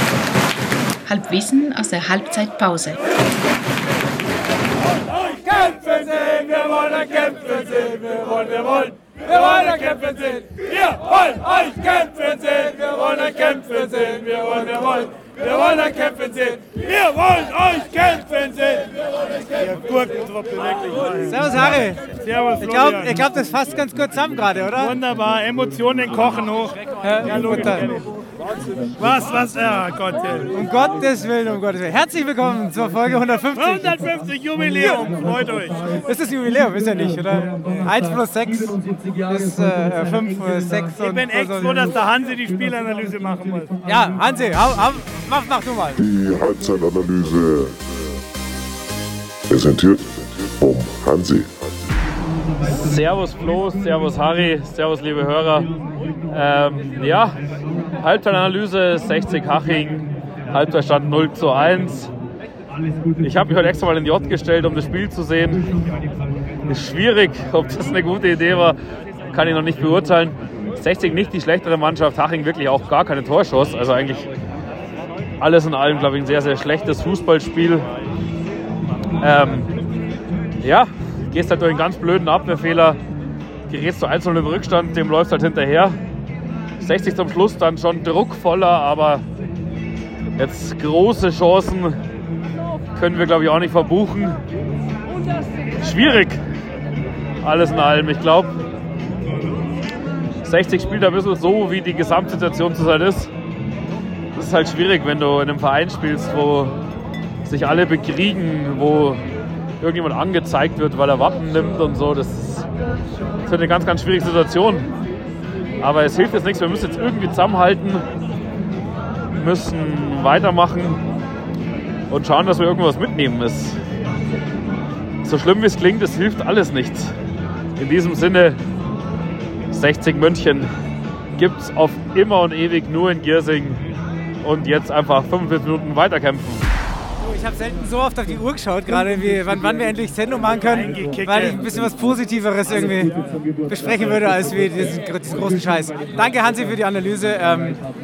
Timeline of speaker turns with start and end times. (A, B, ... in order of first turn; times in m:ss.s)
0:01.0-0:03.0 A
0:05.9-0:23.2 B
0:21.2-0:22.0 C
0:22.6-0:25.0 C
0:24.8-0:28.0 B
0:27.0-0:27.9 C
0:29.0-0:30.5 B
0:30.5-0:34.0 C
0:33.5-0:35.8 B
0:36.0-0:41.8 C
0:41.0-0:43.7 B
0:43.8-0:46.0 C
0:46.0-0:47.8 D
0:49.5-0:51.8 D
0:52.7-0:55.7 E
0:56.3-0:57.4 E
0:58.0-1:02.1 E
1:03.2-1:05.7 E
1:06.7-1:08.8 E
1:09.3-1:14.3 E
1:15.4-1:17.8 E
1:19.2-1:19.7 E
1:20.6-1:23.0 E
1:23.7-1:26.0 E
1:26.8-1:29.2 E
1:30.4-1:31.9 E
1:32.9-1:34.4 E
1:35.8-1:36.4 E
1:37.4-1:38.5 E
1:40.4-1:43.3 E
1:44.3-1:46.7 E
1:47.4-1:49.2 E
1:49.8-1:52.6 E
1:53.4-1:54.9 E
1:55.8-1:58.0 E
1:59.3-2:01.0 E
2:02.1-2:03.8 E
2:05.2-2:07.1 E
2:07.8-2:08.6 E
2:09.7-2:10.7 E
2:11.4-2:13.8 E
2:14.4-2:16.6 E
2:17.2-2:23.1 C
2:20.7-2:21.6 B
2:23.7-2:27.8 C